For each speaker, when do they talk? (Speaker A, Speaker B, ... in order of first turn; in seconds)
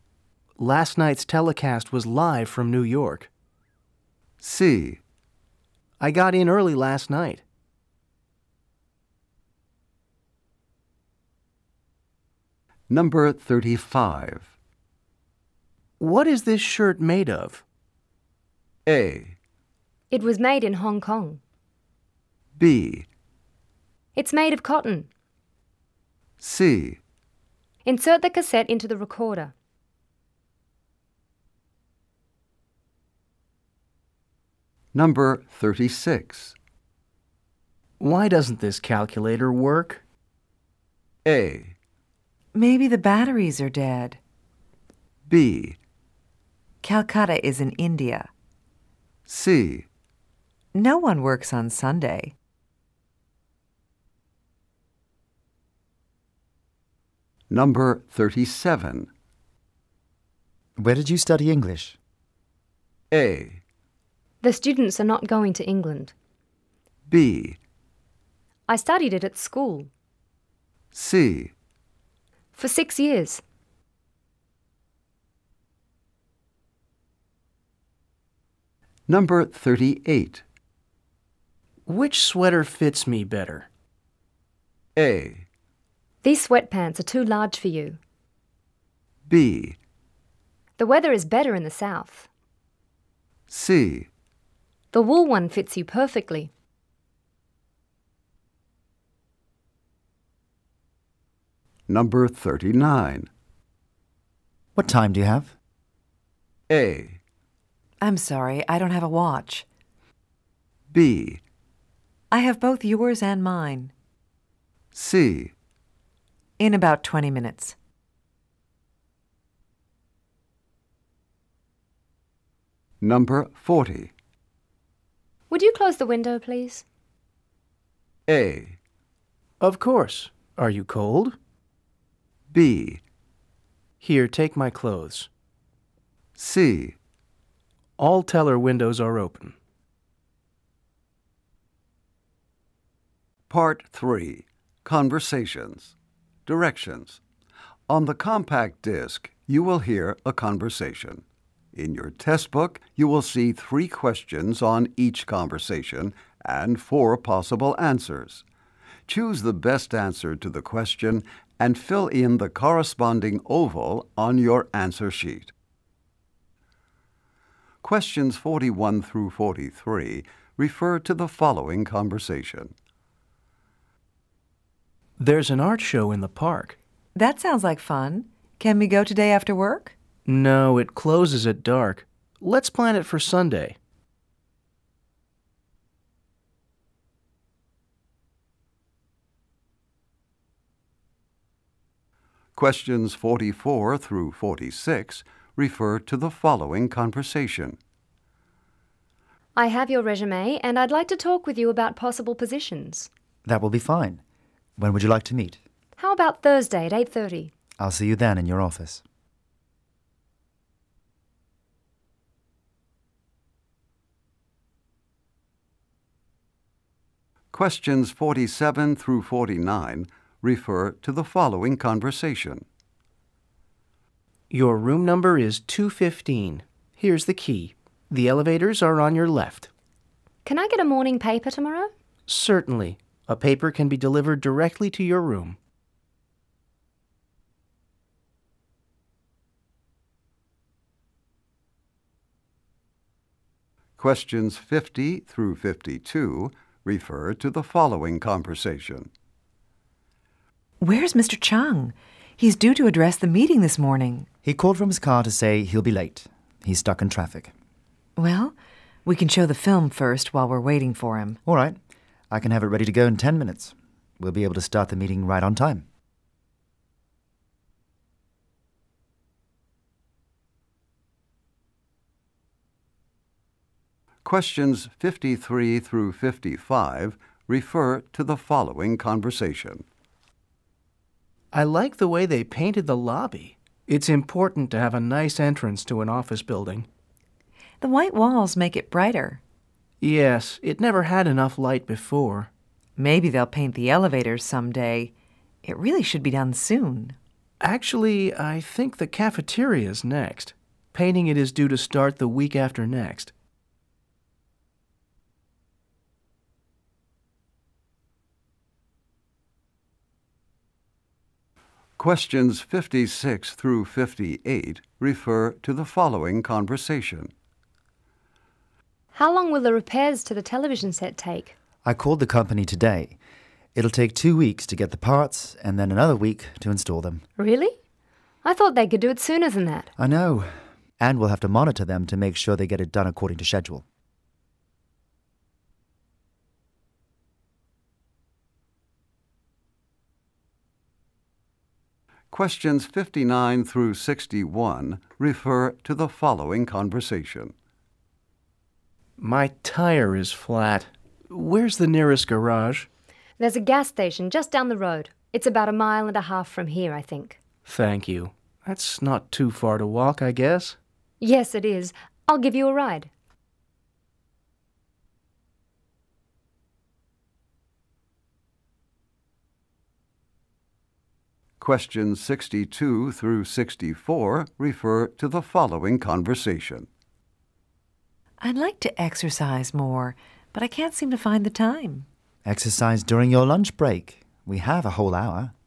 Speaker A: 0.6-3.3, 6.0-7.4, 16.0-17.6, 38.0-40.0, 81.9-83.7, 129.6-131.3, 134.0-135.3, 138.0-139.5, 175.2-176.8, 180.2-183.8, 224.5-229.7, 232.3-235.6, 281.5-286.9, 290.0-292.5, 297.6-303.3, 349.2-352.9, 357.6-360.8
Speaker B: 4.4-5.0, 12.9-14.5, 18.9-19.4, 22.6-23.1, 26.4-27.0, 34.9-36.5, 41.2-41.7, 45.3-45.8, 49.3-49.9, 57.5-59.1, 63.1-63.6, 67.1-67.6, 70.9-71.5, 79.1-80.4, 85.0-85.4, 89.3-89.8, 93.5-94.1, 101.9-103.3, 106.7-107.2, 110.9-111.4, 114.9-115.5, 123.0-124.1, 128.3-128.8, 132.5-133.0, 136.4-137.0, 143.5-145.9, 146.4-147.2, 147.9-158.4, 159.1-165.5, 167.8-172.7, 192.6-197.8, 217.5-222.6, 244.0-249.1, 274.2-279.8, 312.0-317.3, 342.3-347.5, 371.6-376.9
Speaker C: 20.1-21.4, 24.1-25.1, 27.8-29.5, 64.4-66.1, 68.7-69.9, 72.5-73.4, 86.2-88.0, 90.8-92.3, 94.9-96.5, 125.5-126.8, 199.6-203.1, 206.0-207.5, 230.4-231.9, 319.1-321.5, 327.4-327.7, 328.4-329.9, 353.4-357.4, 361.2-363.1
Speaker D: 42.5-44.2, 46.8-48.3, 50.7-52.3, 108.0-109.6, 112.3-113.9, 116.6-117.7, 177.1-179.9, 250.8-254.3, 258.2-258.5, 259.0-261.4, 287.8-289.4, 293.0-295.1, 295.6-297.1, 378.4-382.1
Speaker E: 60.8-62.0, 104.8-105.5, 203.4-204.2, 204.8-205.6, 207.8-209.0, 254.4-257.5, 261.4-261.8, 262.3-265.8, 321.8-323.1, 323.7-327.2, 330.0-333.8, 382.4-385.5